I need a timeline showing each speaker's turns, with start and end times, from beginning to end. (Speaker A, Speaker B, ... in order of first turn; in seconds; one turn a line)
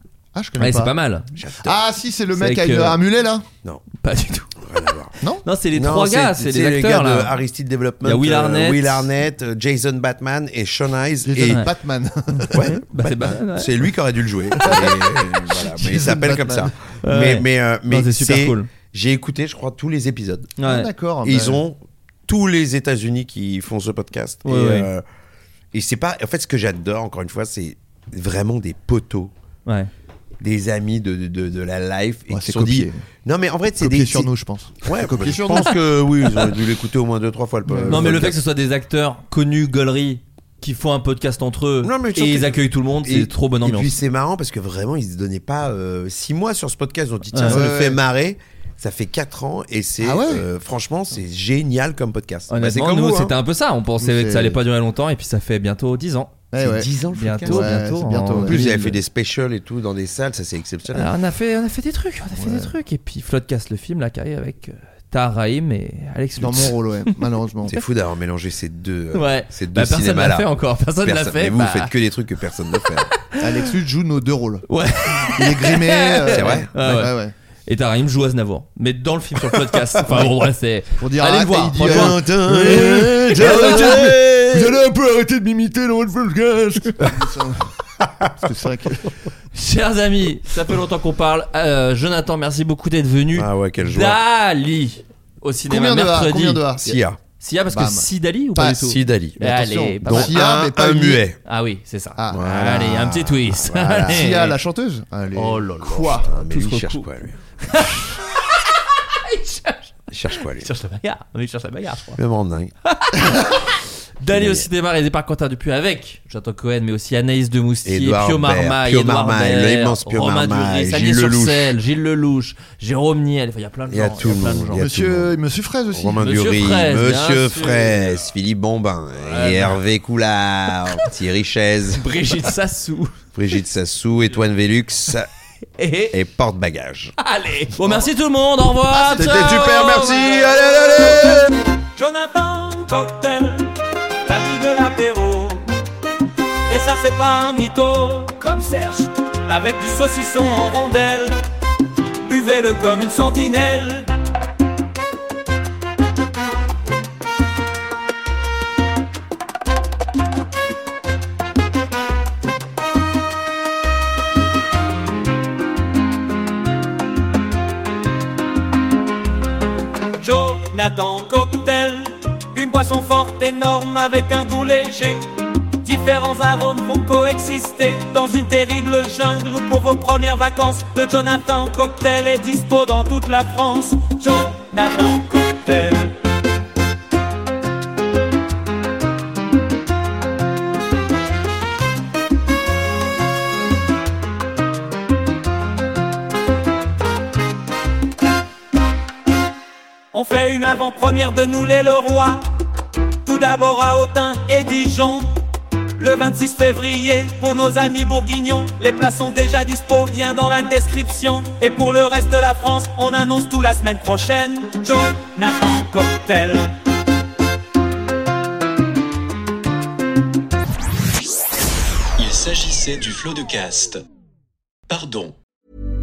Speaker A: 0.3-0.9
Speaker B: 0.6-1.3
Speaker C: 1.4-1.8
Speaker A: 1.6-3.5
Speaker B: 2.4-3.0
Speaker B: 4.0-4.6
Speaker C: 4.6-5.2
Speaker B: 5.4-7.3
Speaker C: 5.7-11.6
Speaker B: 8.0-9.1
Speaker A: 11.2-12.7
Speaker B: 12.5-13.7
Speaker C: 12.5-20.6
Speaker A: 14.6-16.7
Speaker B: 17.0-18.7
Speaker B: 20.6-20.9
Speaker A: 20.6-21.6
Speaker C: 21.2-25.0
Speaker B: 24.4-24.9
Speaker C: 25.7-29.3
Speaker C: 30.4-34.3
Speaker A: 32.3-33.0
Speaker A: 33.8-35.7
Speaker C: 34.8-38.4
Speaker A: 37.7-38.3
Speaker B: 37.9-43.9
Speaker C: 41.8-53.3
Speaker B: 47.3-47.6
Speaker A: 47.4-48.0
Speaker A: 50.0-50.5
Speaker B: 52.5-56.4
Speaker A: 54.0-54.6
Speaker A: 56.5-56.9
Speaker C: 56.6-57.7
Speaker B: 57.1-58.9
Speaker A: 57.4-58.7
Speaker C: 58.4-61.1
Speaker B: 60.9-67.1
Speaker A: 62.4-62.7
Speaker A: 66.3-67.7
Speaker C: 67.7-73.1
Speaker B: 69.1-71.9
Speaker A: 73.4-74.7
Speaker B: 74.7-77.1
Speaker A: 75.2-77.3
Speaker C: 76.3-76.7
Speaker B: 77.7-84.1
Speaker A: 81.0-89.2
Speaker C: 81.8-84.8
Speaker B: 89.5-96.6
Speaker C: 93.3-94.2
Speaker A: 95.7-97.0
Speaker C: 96.8-97.2
Speaker B: 97.4-100.3
Speaker A: 97.7-101.2
Speaker C: 98.6-99.4
Speaker C: 100.0-101.4
Speaker B: 101.4-104.5
Speaker A: 102.2-103.1
Speaker C: 102.3-104.4
Speaker A: 104.0-106.3
Speaker B: 105.3-107.1
Speaker C: 106.0-107.4
Speaker B: 107.6-112.2
Speaker C: 110.1-110.7
Speaker C: 112.2-112.7
Speaker B: 112.8-124.9
Speaker C: 114.3-114.7
Speaker C: 117.8-121.8
Speaker C: 123.9-125.3
Speaker A: 124.8-126.3
Speaker C: 125.9-132.0
Speaker B: 126.2-128.3
Speaker B: 129.2-129.8
Speaker B: 132.0-133.2
Speaker C: 133.3-135.3
Speaker B: 135.8-136.1
Speaker C: 136.1-137.1
Speaker B: 137.2-140.5
Speaker C: 138.9-141.4
Speaker D: 141.9-143.7
Speaker D: 144.2-145.7
Speaker D: 146.7-151.4
Speaker D: 152.2-154.1
Speaker D: 170.2-175.2
Speaker D: 175.8-186.1
Speaker D: 200.1-202.5
Speaker D: 203.3-205.3
Speaker D: 206.0-216.7
Speaker E: 222.2-224.0
Speaker E: 224.9-225.4